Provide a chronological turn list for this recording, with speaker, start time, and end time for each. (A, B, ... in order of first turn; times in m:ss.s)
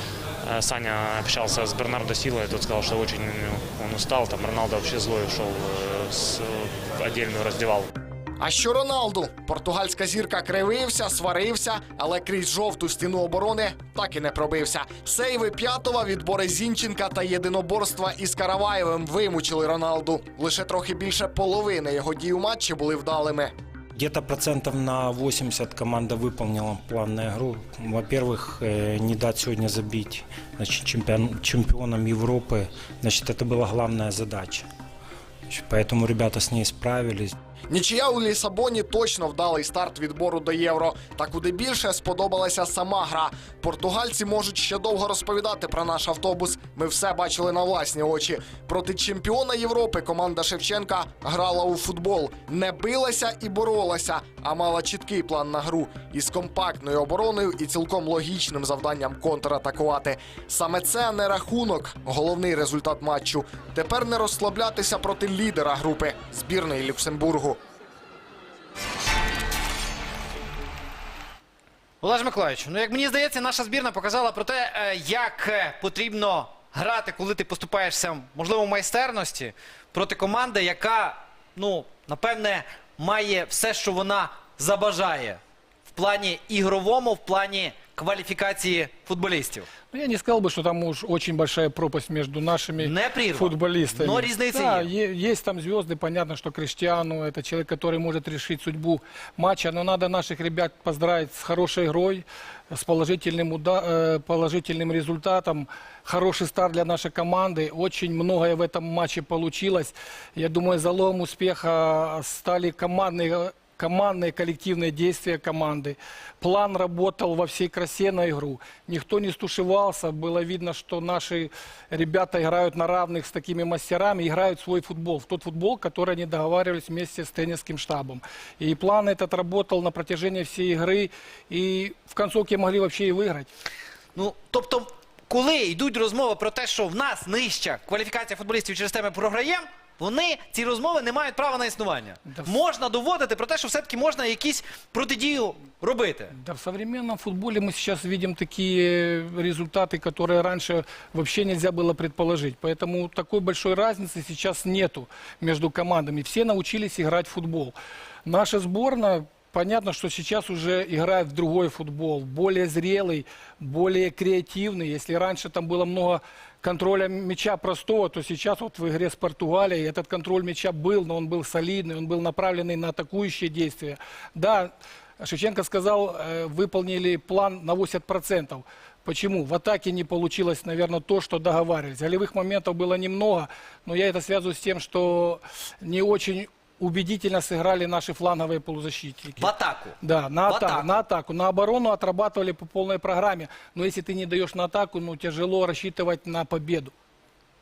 0:00.4-0:07.9 A
0:08.4-0:23.5 B
0:24.0-0:34.7 C
0:35.5-0:37.4 C
0:37.7-1:07.6 B
1:12.0-1:29.7 D
1:29.9-2:13.5 E
1:32.8-1:34.9 D
2:14.2-2:26.3 D
2:26.3-3:09.5 E
3:09.4-3:10.0 D
3:10.0-3:16.9 E
3:10.5-3:11.0 D